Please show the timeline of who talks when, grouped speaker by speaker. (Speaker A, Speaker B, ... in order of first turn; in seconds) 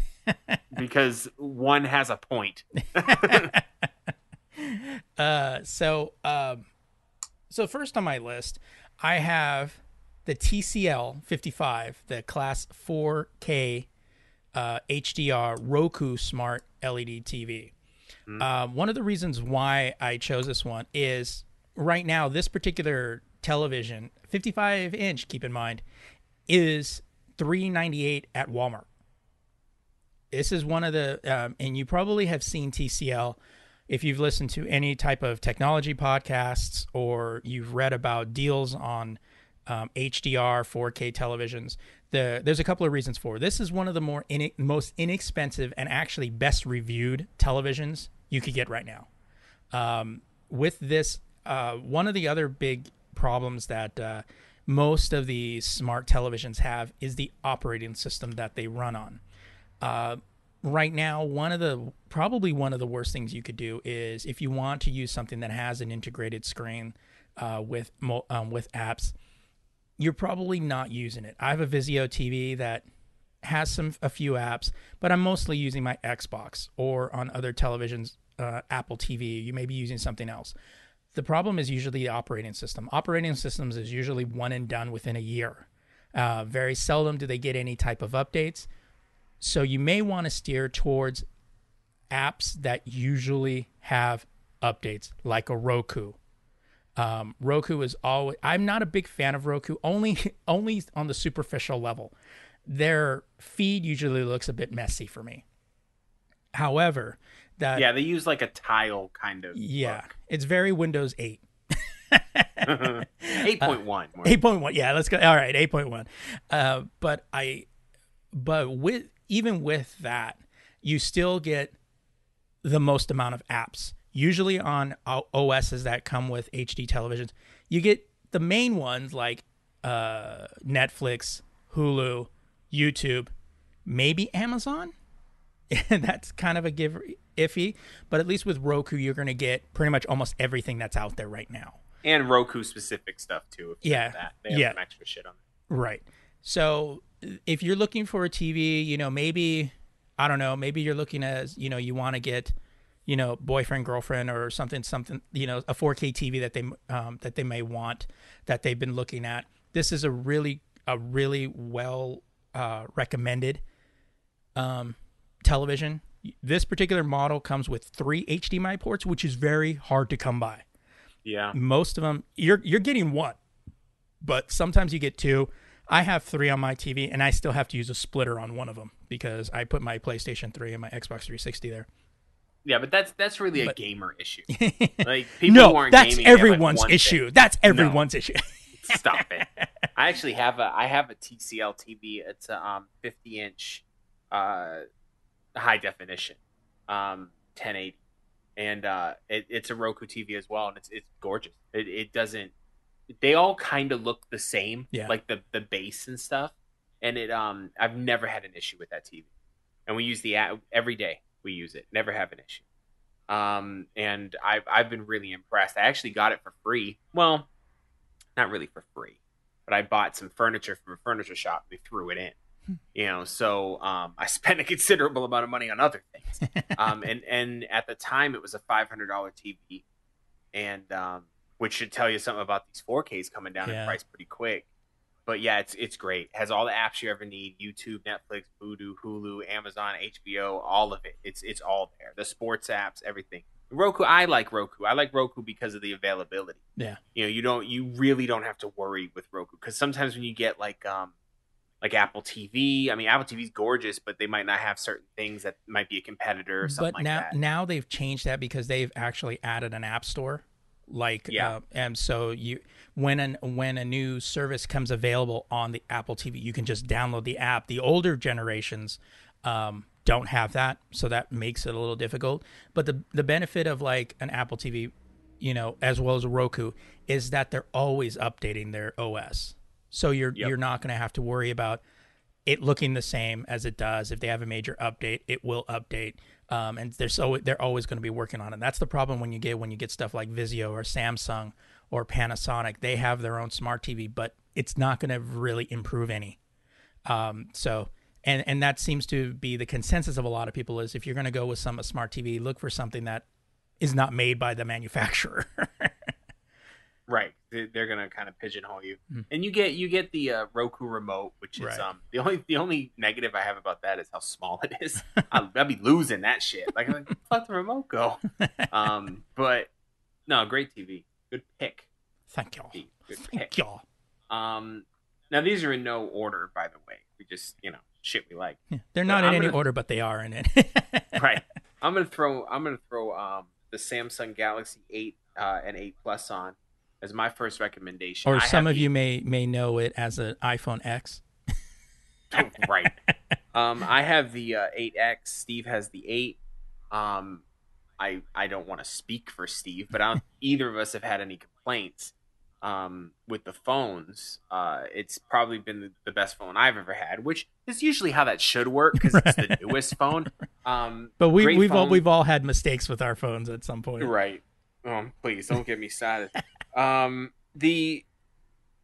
Speaker A: 0.3-0.6, 3.0-3.6, 4.6-6.7, 7.5-13.9, 14.5-17.7, 18.4-25.8, 26.5-28.9, 30.3-49.1, 49.7-59.2, 59.8-69.1, 70.0-72.8, 73.4-80.5, 81.1-88.7, 89.4-91.2, 92.1-96.2, 97.0-102.1, 102.7-105.4, 106.5-107.9, 109.5-117.7, 118.3-121.7, 122.6-133.3, 133.8-134.9, 135.7-141.8, 143.8-144.8, 145.7-152.5, 153.1-163.6, 164.6-170.6, 171.5-173.4, 174.2-181.9, 184.5-189.7, 233.6-234.0, 256.6-281.8, 282.4-296.4, 297.1-303.2, 303.8-305.9, 311.6-311.9, 318.4-318.7, 322.3-323.8, 328.7-331.2, 338.2-341.2, 358.9-359.8, 361.2-364.1
Speaker B: 0.7-3.5, 107.7-110.1, 112.6-114.4, 142.0-145.4, 171.2-171.5, 182.6-184.5, 185.0-188.1, 188.8-194.8, 195.6-198.0, 198.6-202.5, 203.2-209.3, 209.9-212.6, 213.3-217.5, 218.3-222.3, 222.9-229.8, 230.5-234.7, 235.2-246.6, 247.1-251.1, 251.8-257.3, 261.3-261.5, 307.1-319.7, 320.3-321.9, 322.7-323.5, 324.3-329.6, 331.1-338.9, 342.3-342.9, 343.5-346.4, 346.9-347.4, 348.0-362.0, 364.0-368.0